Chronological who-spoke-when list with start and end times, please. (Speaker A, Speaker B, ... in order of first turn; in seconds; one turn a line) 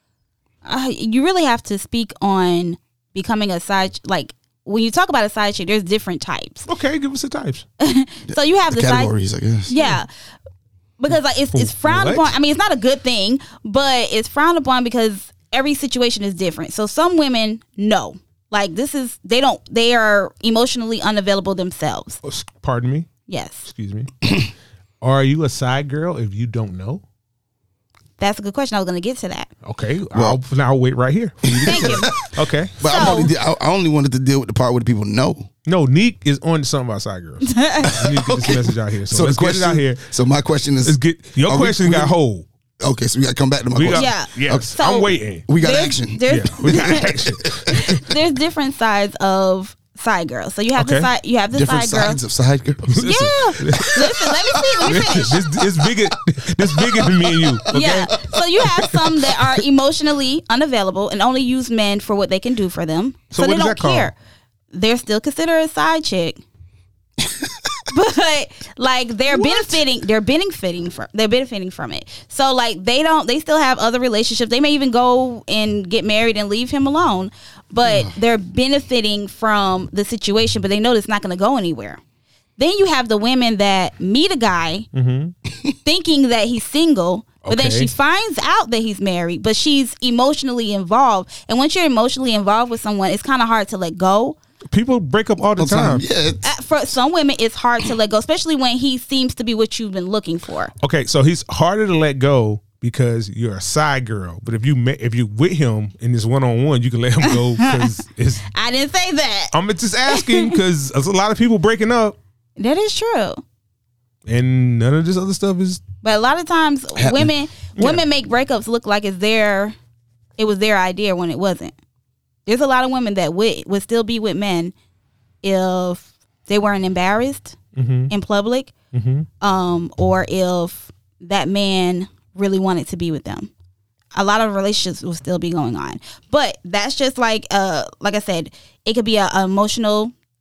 Speaker A: 0.6-6.7
Speaker B: 6.7-7.6
Speaker A: 7.8-9.1
Speaker C: 8.3-9.7
Speaker A: 9.7-10.1
Speaker A: 11.0-22.2
Speaker B: 11.5-12.3
Speaker B: 22.2-23.1
Speaker A: 23.3-23.6
Speaker B: 23.6-24.1
Speaker B: 25.0-27.0
Speaker A: 28.2-29.5
Speaker B: 29.6-33.3
Speaker C: 30.1-30.4
Speaker C: 31.4-35.5
Speaker A: 31.6-32.1
Speaker A: 32.8-33.3
Speaker B: 35.6-40.0
Speaker A: 37.4-38.2
Speaker C: 37.9-42.1
Speaker B: 40.8-42.5
Speaker C: 42.8-44.8
Speaker B: 43.7-45.5
Speaker A: 43.9-52.2
Speaker C: 45.5-47.7
Speaker B: 46.3-48.0
Speaker B: 50.8-51.1
Speaker C: 51.5-59.4
Speaker B: 52.9-54.3
Speaker A: 53.0-55.4
Speaker B: 54.9-58.1
Speaker A: 57.7-64.1
Speaker B: 63.3-64.1
Speaker A: 64.7-66.4
Speaker C: 67.2-67.7
Speaker A: 67.9-82.0
Speaker C: 77.8-78.1
Speaker A: 82.6-84.9
Speaker B: 84.9-85.3
Speaker A: 85.8-94.4
Speaker B: 87.4-87.9
Speaker B: 94.7-96.0
Speaker C: 95.6-96.4
Speaker A: 96.4-100.7
Speaker B: 100.8-108.5
Speaker A: 107.2-107.9
Speaker A: 108.5-109.5
Speaker B: 109.5-112.2
Speaker A: 110.1-110.6
Speaker A: 112.6-113.4
Speaker B: 114.3-115.8
Speaker A: 116.0-119.8
Speaker C: 117.0-117.3
Speaker B: 117.8-118.0
Speaker A: 120.4-121.7
Speaker A: 122.5-124.7
Speaker A: 125.4-127.6
Speaker B: 127.8-128.1
Speaker A: 128.1-128.7
Speaker B: 128.9-129.3
Speaker A: 129.4-133.5
Speaker A: 134.1-140.1